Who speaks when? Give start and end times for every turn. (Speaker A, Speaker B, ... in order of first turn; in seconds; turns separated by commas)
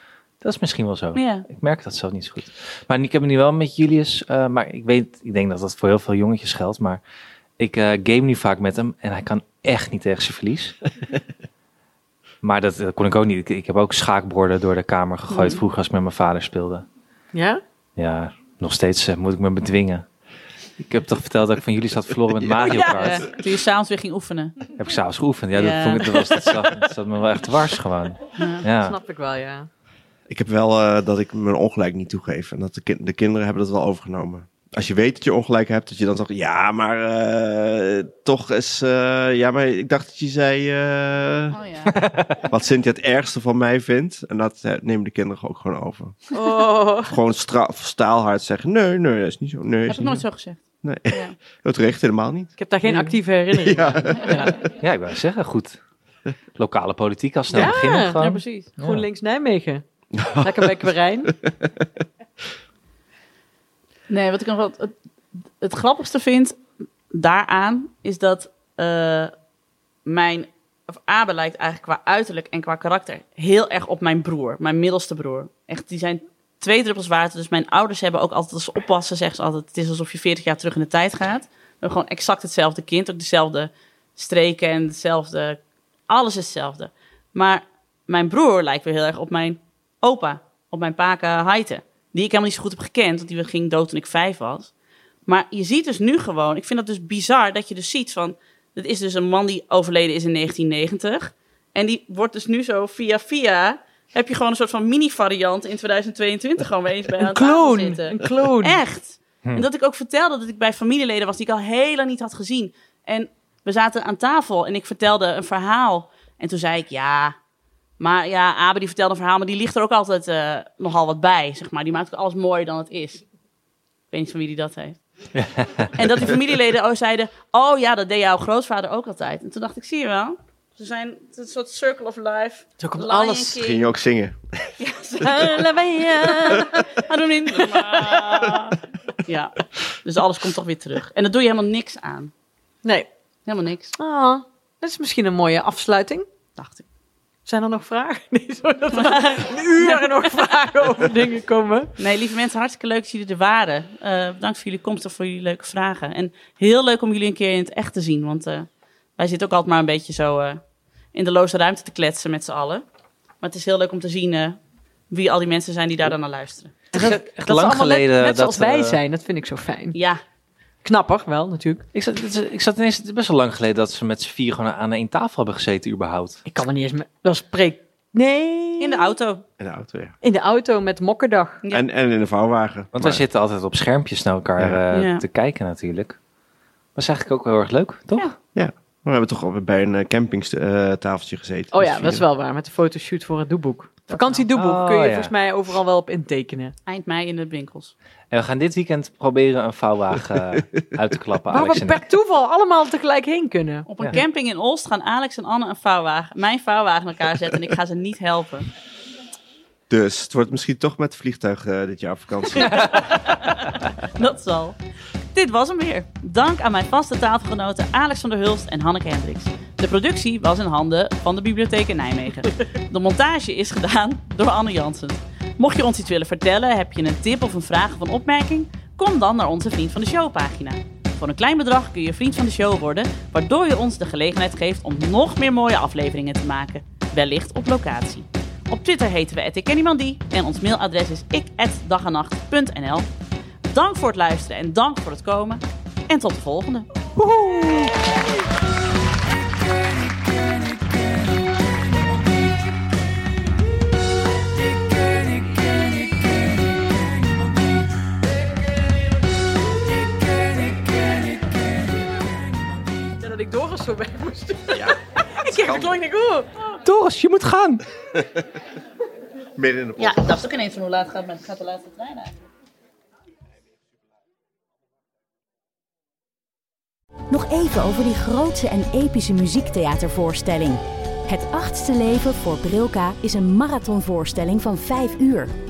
Speaker A: 0.4-7.0, Speaker B: 1.1-1.5, Speaker A: 7.6-10.8, Speaker A: 12.4-16.9, Speaker B: 15.3-15.6, Speaker C: 17.3-17.6, Speaker A: 18.0-20.0, Speaker A: 20.8-23.3, Speaker D: 22.4-22.8, Speaker C: 22.6-23.1, Speaker B: 22.9-24.7, Speaker A: 24.8-29.0, Speaker B: 25.5-26.5, Speaker B: 28.4-28.6, Speaker C: 28.8-29.7, Speaker D: 30.3-41.5, Speaker B: 41.5-41.9, Speaker A: 41.9-42.4, Speaker D: 42.5-46.2, Speaker C: 46.3-47.1, Speaker D: 47.1-50.2, Speaker B: 49.9-51.3, Speaker D: 50.8-52.5, Speaker C: 52.6-54.6, Speaker D: 53.5-54.4, Speaker A: 54.7-55.8, Speaker A: 56.5-59.0, Speaker C: 57.5-59.8, Speaker B: 57.6-58.7, Speaker D: 60.2-60.7, Speaker C: 60.4-61.3, Speaker B: 64.1-64.9, Speaker B: 65.6-66.6, Speaker B: 67.1-69.3, Speaker B: 70.0-94.7, Speaker B: 95.2-117.3, Speaker C: 107.2-108.8, Speaker B: 118.0-123.2, Speaker B: 124.1-125.0, Speaker A: 125.3-125.9, Speaker B: 126.0-133.9, Speaker C: 132.8-133.6, Speaker D: 133.6-134.4, Speaker B: 134.8-142.3, Speaker C: 135.2-137.0, Speaker C: 137.8-138.1, Speaker C: 142.8-143.1, Speaker B: 143.4-143.9, Speaker C: 144.0-146.2, Speaker B: 146.6-146.8, Speaker C: 147.4-151.9, Speaker B: 149.0-150.3, Speaker B: 152.0-160.6, Speaker B: 161.1-162.8, Speaker B: 163.4-164.6, Speaker B: 165.1-166.9, Speaker C: 166.9-170.0, Speaker A: 166.9-169.0, Speaker B: 169.9-170.2, Speaker C: 170.8-171.8, Speaker A: 171.9-176.4, Speaker C: 176.4-179.2, Speaker B: 178.8-179.4, Speaker D: 179.6-180.1, Speaker C: 180.2-181.6, Speaker D: 181.7-183.2, Speaker A: 182.9-186.2, Speaker B: 184.9-185.2, Speaker A: 186.9-188.3, Speaker D: 188.5-192.2, Speaker C: 191.7-196.7, Speaker B: 194.1-194.4, Speaker A: 194.5-195.3, Speaker B: 196.8-197.9, Speaker A: 198.3-202.1, Speaker C: 201.5-203.9, Speaker B: 203.9-208.7, Speaker D: 209.9-212.9, Speaker B: 212.6-213.6, Speaker B: 214.2-214.8, Speaker B: 215.3-243.1, Speaker B: 243.7-246.9, Speaker A: 247.2-247.9, Speaker C: 263.1-266.5, Speaker D: 264.7-265.9, Speaker A: 266.8-267.8, Speaker D: 269.6-270.3, Speaker B: 270.0-272.3, Speaker E: 277.3-285.5